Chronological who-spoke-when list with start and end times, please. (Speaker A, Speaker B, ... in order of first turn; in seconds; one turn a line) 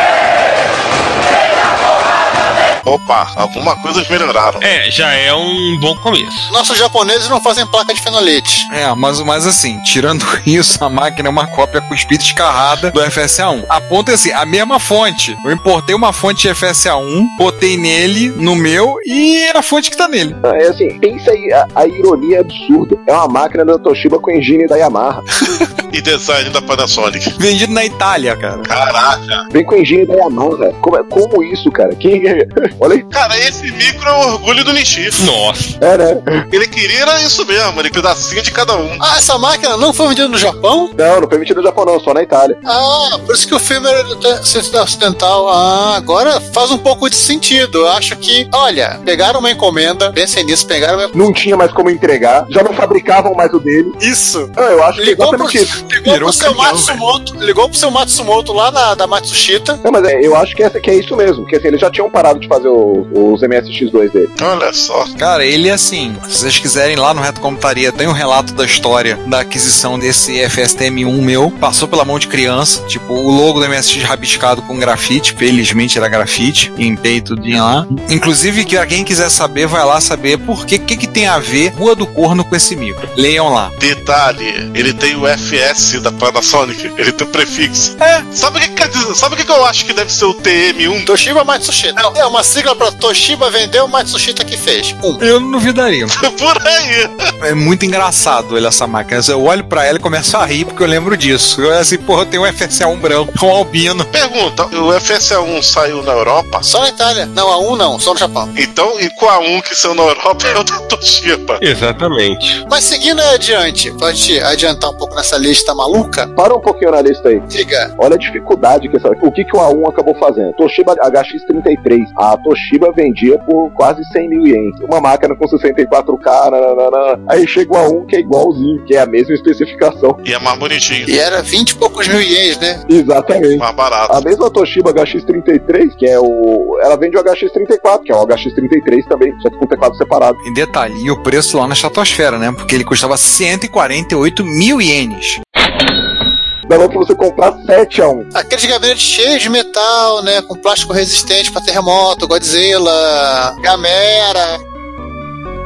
Speaker A: 2.9-4.7
Speaker B: 4.6-6.5
Speaker C: 6.5-8.7
Speaker D: 8.7-20.4
Speaker E: 20.4-25.2
Speaker A: 25.9-27.3
Speaker D: 27.4-28.7
Speaker A: 28.7-29.4
Speaker E: 29.5-33.0
Speaker A: 33.1-35.2
Speaker B: 35.2-35.8
Speaker E: 35.8-36.4
Speaker A: 36.5-39.0
Speaker C: 39.0-40.9
Speaker E: 41.0-42.6
Speaker C: 42.6-51.1
Speaker E: 51.1-54.0
Speaker C: 54.0-59.8
Speaker E: 54.6-55.8
Speaker D: 55.9-57.0
Speaker E: 59.8-64.3
Speaker A: 64.4-65.1
Speaker D: 65.2-83.7
Speaker A: 83.8-91.1
Speaker D: 88.0-88.3
Speaker C: 91.1-95.2
Speaker D: 95.2-96.2
Speaker A: 96.2-97.3
Speaker D: 97.4-104.1
Speaker A: 104.1-106.7
Speaker C: 106.7-108.5
Speaker A: 108.5-111.6
Speaker B: 111.6-112.6
Speaker C: 112.7-116.3
Speaker E: 116.3-117.5
Speaker C: 117.5-117.9
Speaker E: 118.0-130.2
Speaker A: 130.2-131.1
Speaker C: 131.1-132.8
Speaker E: 132.9-140.4
Speaker A: 133.6-134.2
Speaker D: 140.4-145.4
Speaker E: 146.7-148.3
Speaker C: 148.3-154.6